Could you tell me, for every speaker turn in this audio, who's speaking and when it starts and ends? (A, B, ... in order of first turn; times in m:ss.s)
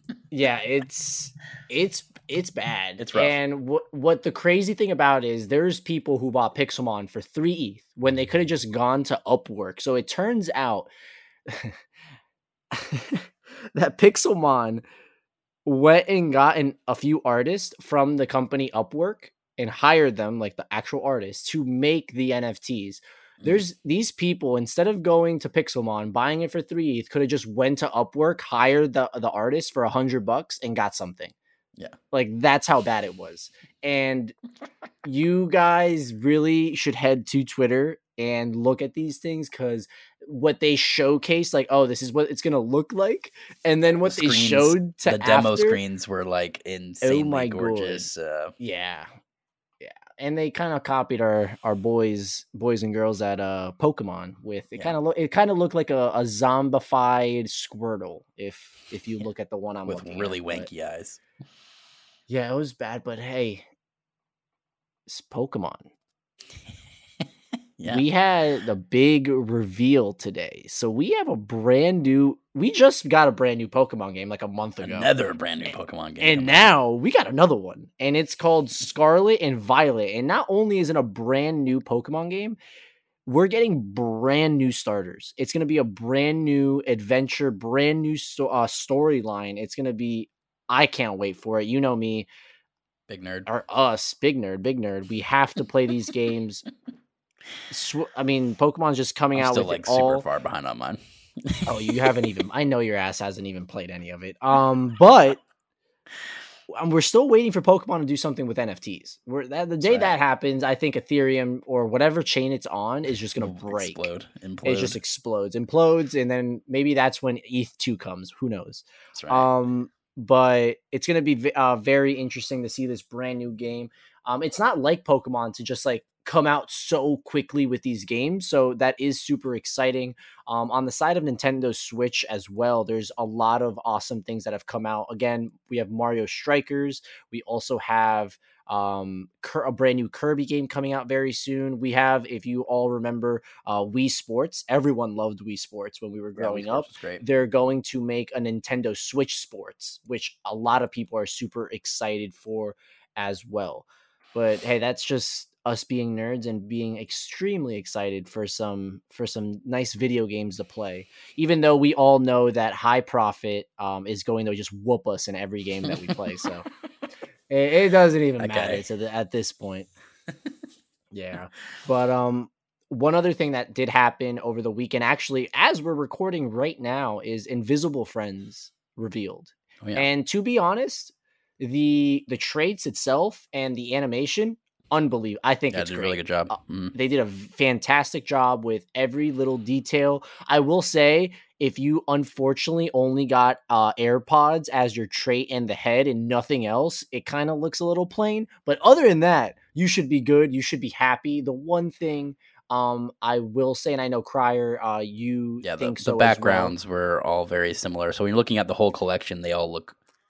0:00.3-0:10.9 A
0:03.0-0:03.3 B
0:11.5-0:11.8 A
0:12.7-0:14.8 A
0:15.6-0:31.3 A
0:32.1-0:34.4 A
0:35.0-0:45.8 A
0:44.0-0:48.5 B
0:47.0-0:49.1 A
0:49.8-1:00.7 A
0:59.9-1:01.2 B
1:02.3-1:03.7 A
1:05.1-1:05.9 A
1:07.8-1:08.0 B
1:07.9-1:15.1 A
1:14.8-1:16.7 B
1:16.2-1:22.6 A
1:23.3-1:32.3 A
1:33.1-1:33.5 B
1:33.5-1:36.6 A
1:37.7-1:40.2 A
1:39.4-1:41.6 B
1:41.7-1:45.4 A
1:46.7-1:54.1 A
1:49.8-1:50.1 B
1:53.4-1:55.0 B
1:54.6-2:46.7 A
1:59.1-1:59.5 B
2:26.4-2:27.2 B
2:47.5-2:49.9 A
2:48.4-2:48.8 B
2:51.1-3:06.2 A
2:59.8-3:00.1 B
3:05.7-3:06.9 B
3:06.9-3:26.7 A
3:25.6-3:30.0 B